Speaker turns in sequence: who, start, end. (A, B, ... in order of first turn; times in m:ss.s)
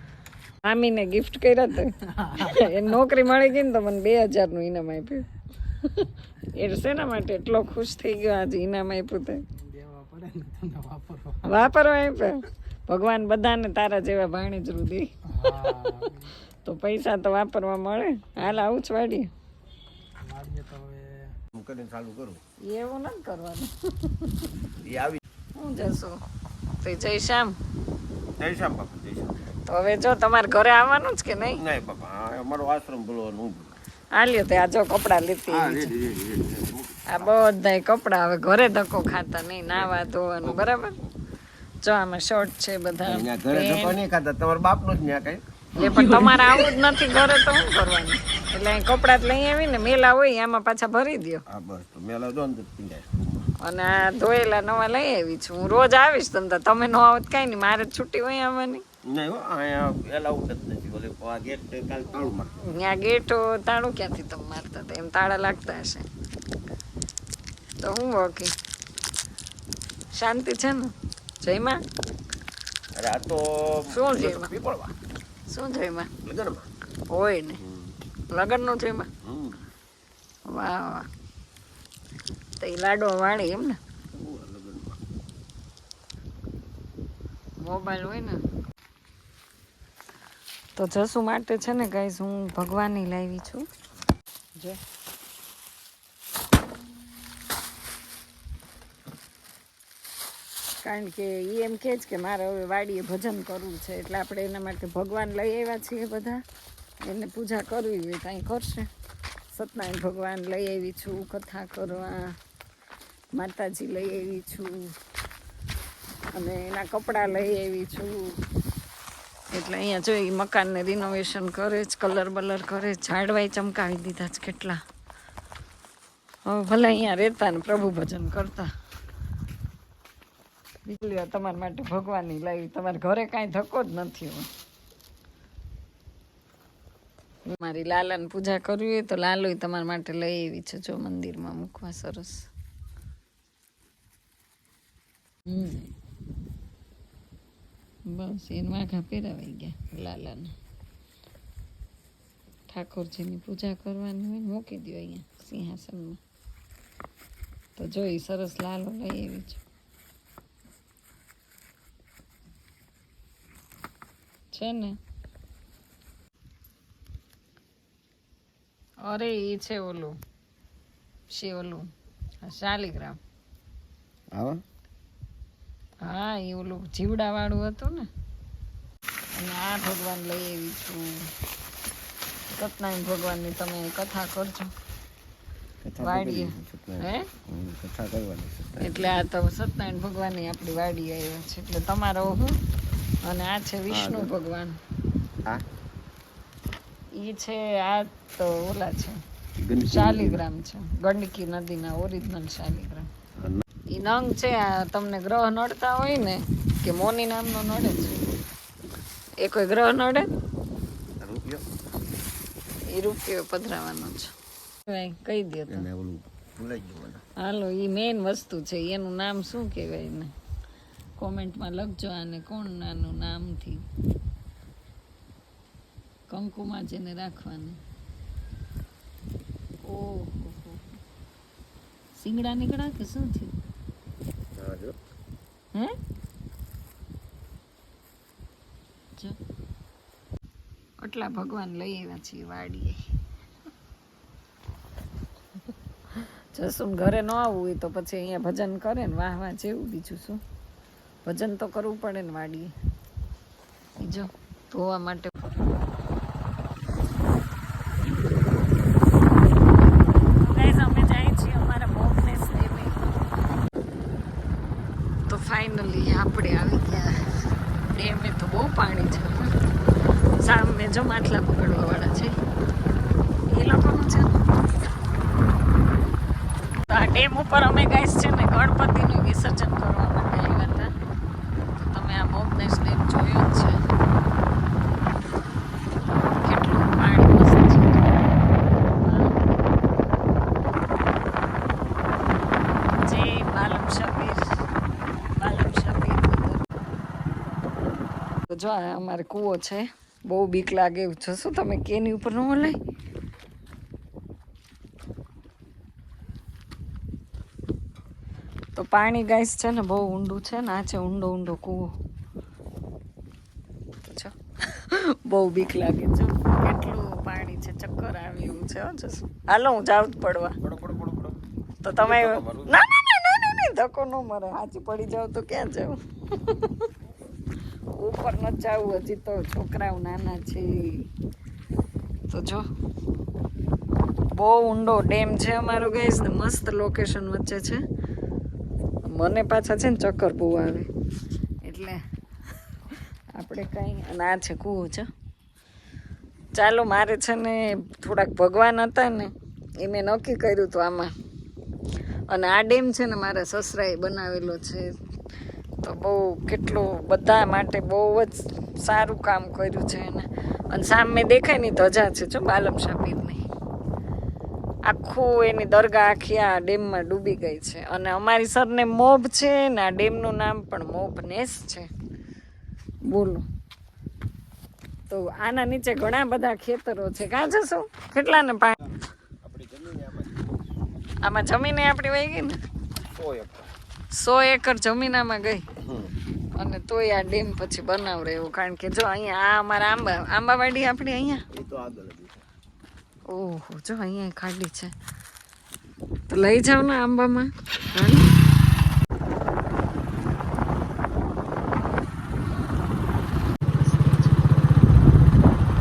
0:00.6-0:09.4 A
0:09.6-0:11.5 B
0:11.4-0:15.9 A
0:15.4-0:16.3 B
0:16.6-0:19.3 A
0:20.2-0:21.3 B
0:21.5-0:22.4 C
0:22.7-0:24.5 A
0:24.8-0:25.2 C
0:25.6-0:26.2 A
0:26.8-0:27.6 A
0:28.4-0:29.4 C
0:29.7-0:31.6 A
0:31.6-0:33.8 C
0:34.2-0:35.9 A
0:35.5-0:37.1 C
0:37.1-0:41.0 A
0:39.7-0:40.7 C
0:41.8-0:44.0 A
0:43.0-0:45.4 C
0:45.8-0:51.4 A
0:45.8-0:46.3 B
0:51.5-0:53.5 C
0:53.6-0:58.8 A
0:59.1-1:02.5 C
1:02.6-1:06.1 A
1:07.8-1:08.5 A
1:10.1-1:11.8 A
1:13.0-1:14.9 C
1:13.9-1:14.5 A
1:15.5-1:16.1 A
1:16.2-1:16.7 C
1:17.1-1:17.6 A
1:17.6-1:18.0 C
1:18.3-1:19.1 A
1:19.2-1:19.6 C
1:20.5-1:21.1 A
1:22.6-1:23.8 A
1:24.1-1:25.0 C
1:27.6-1:28.4 A
1:30.8-1:33.6 A
1:40.8-1:46.4 A
1:47.0-1:48.9 A
1:49.5-1:52.4 A
1:53.4-1:54.9 A
1:56.3-1:58.4 A
1:59.5-2:04.8 A
2:06.5-2:08.7 A
2:10.9-2:14.5 A
2:17.5-2:22.5 A
2:25.5-2:25.9 A
2:28.1-2:30.5 A
2:32.7-2:36.2 A
2:37.8-2:39.6 A
2:44.5-2:45.0 A
2:49.0-2:50.2 A
2:51.3-2:51.9 A
2:52.4-2:53.2 A
2:54.3-2:54.6 C
2:56.0-2:58.1 A
2:59.3-3:01.3 A
3:02.6-3:04.7 A
3:05.8-3:09.1 C
3:06.0-3:07.3 A
3:08.8-3:12.6 A
3:13.2-3:14.8 A
3:13.9-3:14.3 C
3:17.1-3:19.2 A
3:19.6-3:20.4 C
3:19.9-3:23.1 A
3:23.4-3:23.6 C
3:23.9-3:28.1 A
3:27.9-3:28.4 C
3:29.4-3:30.3 A
3:31.2-3:31.6 C
3:32.9-3:34.3 A
3:34.9-3:35.9 A
3:35.7-3:37.2 C
3:37.4-3:40.3 A
3:41.2-3:43.8 A
3:46.3-3:47.8 A
3:49.8-3:50.9 A
3:52.2-3:53.6 A
3:54.6-3:55.0 C
4:01.0-4:03.0 A
4:06.1-4:10.4 A
4:11.2-4:12.7 A
4:14.0-4:15.4 A
4:20.4-4:23.0 A
4:25.3-4:27.3 A
4:27.9-4:29.5 A
4:30.4-4:32.4 A
4:33.5-4:34.4 A
4:36.9-4:40.9 A
4:41.7-4:43.8 A
4:46.4-4:48.1 A
4:49.0-4:49.4 A
4:52.9-4:54.5 A
4:55.3-4:56.7 A
4:58.5-5:02.8 A
5:08.8-5:11.9 A
5:14.0-5:20.6 A
5:20.6-5:21.4 C
5:21.8-5:26.9 A
5:22.0-5:22.8 C
5:28.0-5:31.1 A
5:32.3-5:32.6 A
5:34.3-5:37.8 A
5:39.1-5:40.9 A
5:41.6-5:42.0 A
5:43.4-5:45.1 A
5:46.6-5:51.1 A
5:52.3-5:54.9 A
5:55.8-6:03.4 A
6:04.9-6:11.9 A
6:13.1-6:13.4 A
6:15.1-6:18.8 A
6:19.2-6:20.5 C
6:21.2-6:22.6 A
6:23.1-6:23.7 C
6:24.1-6:25.6 A
6:25.8-6:26.1 C
6:26.6-6:31.4 A
6:31.5-6:32.4 C
6:33.3-6:34.9 A
6:36.3-6:38.3 A
6:43.6-6:44.4 A